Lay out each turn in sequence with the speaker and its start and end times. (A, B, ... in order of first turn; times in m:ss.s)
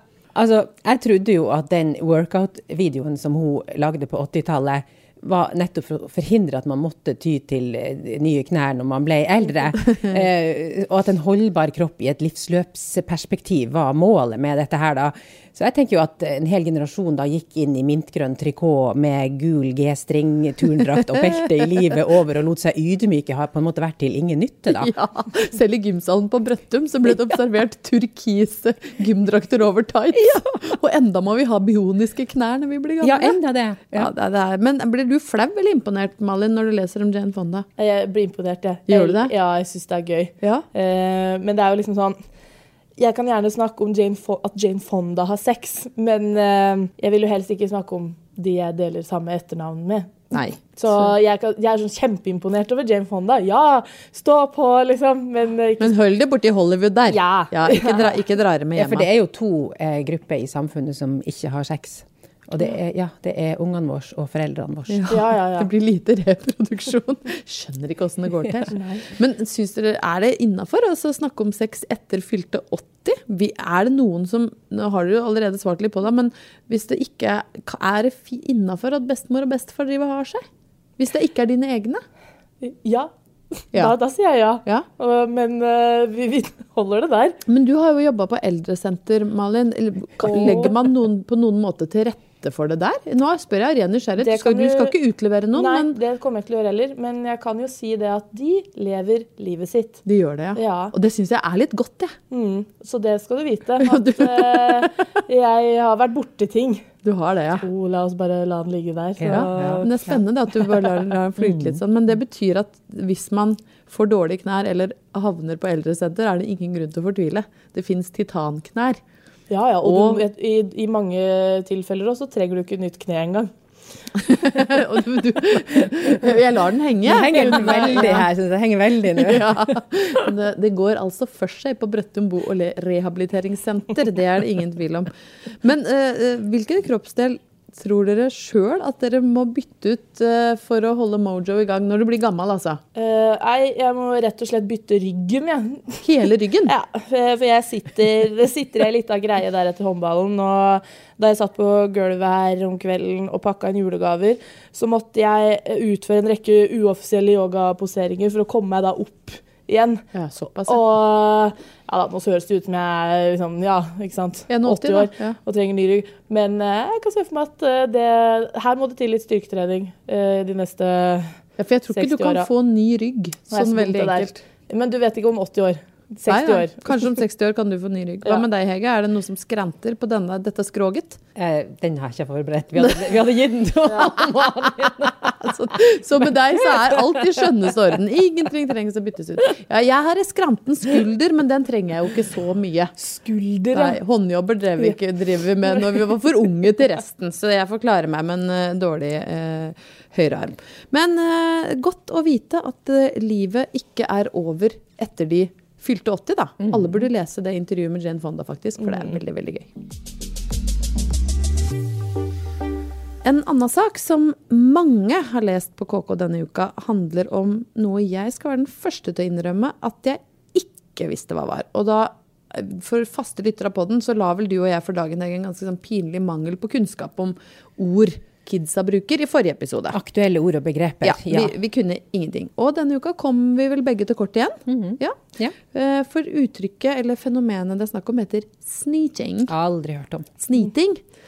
0:00.4-0:24.9 A
0:24.7-0:33.4 B
0:30.2-0:30.5 A
0:33.0-0:34.1 A
0:33.9-0:37.7 B
0:37.8-0:42.2 C
0:38.9-0:39.3 B
0:43.0-0:56.0 C
0:50.3-0:51.1 B
0:55.8-0:59.1 B
0:57.1-0:58.2 C
0:58.8-1:05.1 A
1:04.9-1:20.4 B
1:05.1-1:05.7 C
1:08.7-1:09.0 C
1:21.0-1:22.0 B
1:22.6-1:27.4 C
1:27.5-1:36.0 B
1:30.2-1:30.8 C
1:34.2-1:35.0 C
1:35.6-1:40.0 C
1:40.1-1:42.1 B
1:40.6-1:40.9 C
1:42.3-1:46.9 C
1:43.8-1:45.0 B
1:47.0-1:47.6 B
1:47.6-1:50.0 C
1:49.2-1:49.9 A
1:49.2-1:59.0 B
1:51.4-1:51.8 A
1:59.5-2:03.5 C
1:59.8-2:00.2 B
2:04.1-2:08.3 B
2:07.0-2:09.7 A
2:09.1-2:15.1 B
2:15.6-2:22.8 B
2:23.0-2:40.0 C
2:26.0-2:26.7 B
2:40.1-2:40.8 B
2:40.7-2:51.4 C
2:44.5-2:45.4 B
2:51.6-2:54.4 B
2:51.9-2:52.5 C
2:53.5-2:57.2 C
2:56.3-3:01.2 B
3:01.4-3:05.5 A
3:05.4-3:12.9 B
3:06.6-3:07.7 A
3:13.0-3:14.0 C
3:13.7-3:29.7 B
3:15.7-3:16.0 C
3:26.6-3:27.0 A
3:33.2-3:50.0 B
3:49.9-3:51.5 A
3:51.0-3:59.5 B
3:54.7-3:55.5 A
3:59.5-4:00.3 A
4:00.4-4:01.0 B